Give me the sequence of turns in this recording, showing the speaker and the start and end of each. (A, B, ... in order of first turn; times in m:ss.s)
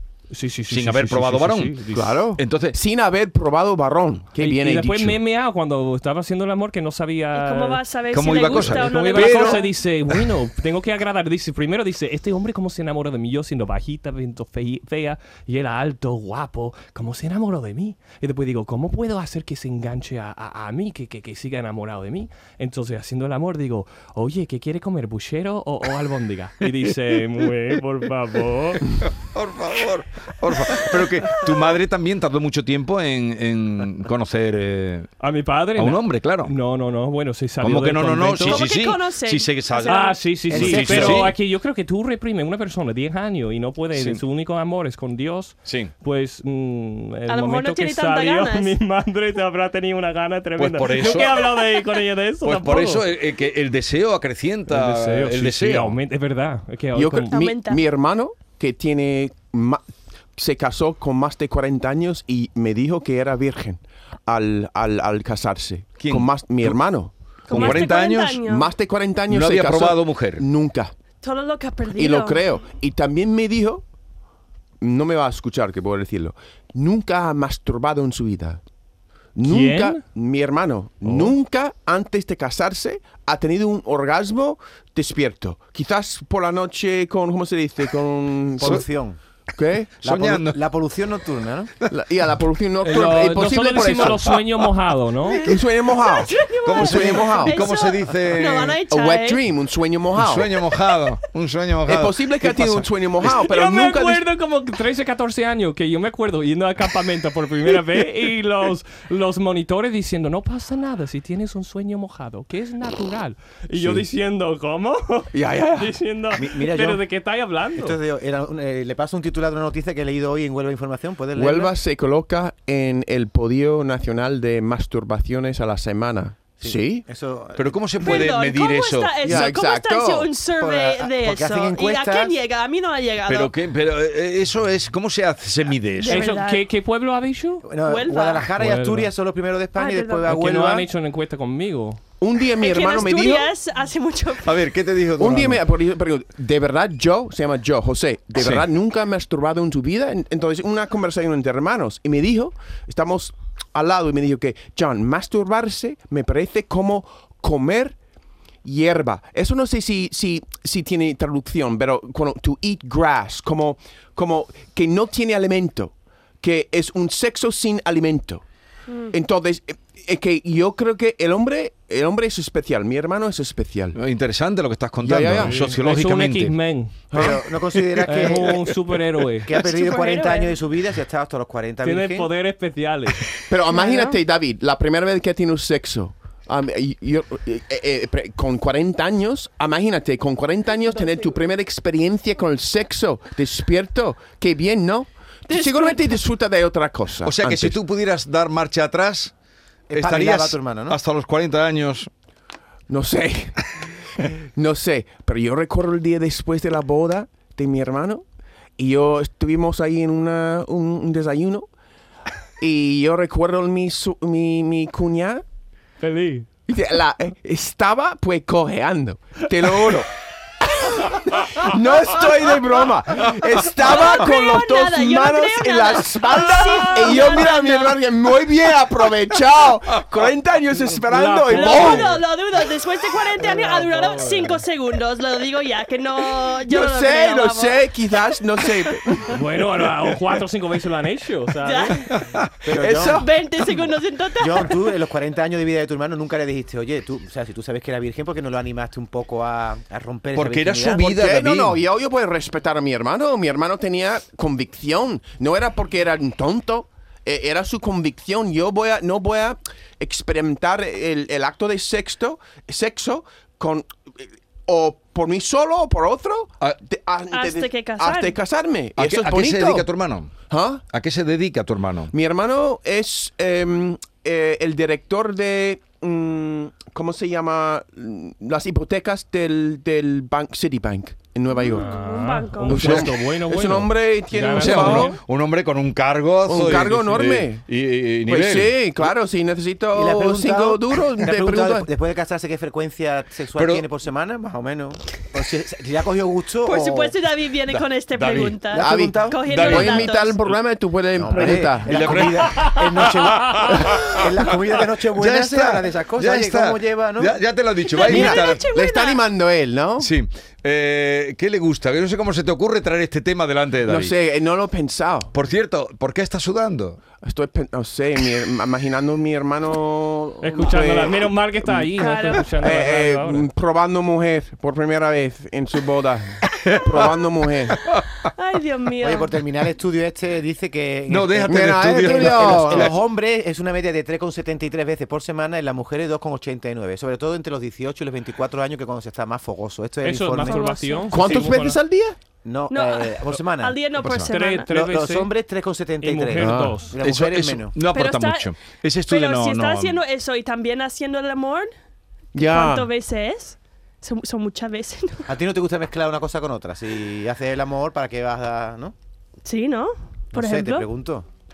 0:00.3-0:02.1 A
0:00.7-0:01.8 B
0:01.9-0:05.2 C
0:02.4-0:02.8 B
0:04.4-0:07.8 A
0:07.3-0:09.7 D
0:08.1-0:09.6 B
0:08.4-0:28.8 A
0:29.0-0:35.1 B
0:35.2-0:38.6 A
0:35.8-0:36.5 B
0:37.6-0:41.4 B
0:38.4-0:40.2 D
0:39.9-0:53.1 A
0:40.5-0:41.3 E
0:43.9-0:44.2 B
0:45.6-0:45.9 B
0:47.3-0:48.8 D
0:50.6-0:51.5 B
0:52.4-0:56.0 B
0:54.7-0:57.4 A
0:56.9-0:59.8 C
0:57.3-0:57.8 D
1:00.3-1:07.9 C
1:06.0-1:06.7 B
1:07.5-1:08.7 D
1:07.5-1:08.4 B
1:08.4-1:10.9 C
1:09.3-1:10.4 B
1:11.2-1:12.5 D
1:11.9-1:13.8 C
1:14.8-1:18.6 C
1:19.3-1:28.8 C
1:19.4-1:20.0 A
1:28.6-1:29.2 E
1:29.5-1:29.9 C
1:30.0-1:30.6 B
1:30.0-1:31.7 E
1:31.9-1:34.4 C
1:32.8-1:35.4 A
1:35.3-1:39.4 D
1:35.4-1:37.6 C
1:36.6-1:38.8 B
1:38.9-1:40.5 C
1:40.1-1:42.8 B
1:41.8-1:44.2 C
1:43.2-1:58.0 A
1:55.3-1:56.0 C
1:56.4-1:57.0 E
1:57.7-2:01.7 E
2:01.3-2:07.0 C
2:06.6-2:08.3 E
2:07.5-2:09.3 B
2:08.0-2:13.5 D
2:09.2-2:10.3 C
2:10.6-2:12.4 E
2:13.2-2:16.3 B
2:16.0-2:16.7 D
2:16.1-2:17.7 A
2:17.6-2:20.9 E
2:17.8-2:18.5 D
2:18.5-2:19.1 A
2:19.8-2:20.3 D
2:20.2-2:22.0 A
2:22.2-2:23.5 C
2:22.6-2:24.6 D
2:24.4-2:25.6 B
2:25.2-2:38.0 C
2:38.6-2:48.4 C
2:48.9-2:49.1 D
2:49.1-2:54.0 C
2:53.9-2:56.6 B
2:55.0-2:55.6 C
2:55.3-2:57.0 A
2:57.1-2:57.4 C
2:57.1-2:58.6 E
2:58.0-2:59.5 A
2:59.4-3:02.3 E
2:59.6-3:00.6 D
3:01.8-3:03.3 A
3:03.5-3:17.8 C
3:03.7-3:04.2 D
3:15.5-3:16.0 D
3:17.2-3:19.3 B
3:19.9-3:21.0 E
3:19.9-3:22.1 B
3:22.9-3:23.5 C
3:24.2-3:28.2 C
3:28.8-3:31.7 C
3:32.6-3:35.4 C
3:36.0-3:36.5 A
3:36.7-3:52.2 C
3:43.7-3:48.0 D
3:50.9-3:52.2 A
3:51.5-3:58.2 D
3:53.4-3:54.6 A
3:56.6-3:59.4 C
3:59.3-4:02.0 A
4:01.6-4:02.1 D
4:02.2-4:02.6 B
4:02.6-4:03.2 E
4:02.7-4:03.3 C
4:03.1-4:04.8 D
4:04.4-4:11.1 E
4:10.3-4:11.8 B
4:10.9-4:29.9 C
4:27.3-4:28.4 D
4:29.0-4:30.3 B
4:30.5-4:30.8 C
4:30.9-4:32.1 B
4:32.1-4:41.9 C
4:41.5-4:42.9 D
4:41.7-4:45.2 A
4:42.7-4:45.1 C
4:42.7-4:43.1 B
4:44.5-4:48.8 B
4:46.4-4:47.6 C
4:48.2-4:51.9 C
4:49.9-4:57.1 E
4:53.5-4:53.8 B
4:56.6-5:00.4 D
4:57.7-4:58.7 B
4:58.7-4:59.4 E
4:58.7-5:02.3 C
4:59.4-5:00.1 B
5:01.2-5:07.4 E
5:01.4-5:04.5 B
5:05.1-5:08.7 B
5:07.9-5:09.2 D
5:08.0-5:10.1 C
5:10.0-5:14.1 B
5:13.8-5:15.3 C
5:15.3-5:17.0 B
5:17.2-5:22.0 C
5:20.4-5:23.4 A
5:22.0-5:22.5 D
5:22.6-5:27.8 C
5:28.4-5:29.3 D
5:29.0-5:40.8 E
5:31.1-5:33.0 B
5:31.5-5:32.9 C
5:40.0-5:41.8 A
5:40.4-5:41.2 D
5:41.1-5:42.2 C
5:42.4-5:43.8 E
5:42.7-5:44.7 D
5:44.0-5:44.3 B
5:44.3-5:45.3 A
5:44.7-5:47.8 E
5:46.0-5:47.0 A
5:46.3-5:47.5 C
5:47.0-5:50.0 B
5:47.9-5:48.5 D
5:49.1-5:51.7 D
5:52.3-5:52.9 C
5:52.5-5:55.2 D
5:55.3-5:58.9 E
5:59.4-6:00.9 D
6:00.3-6:01.3 E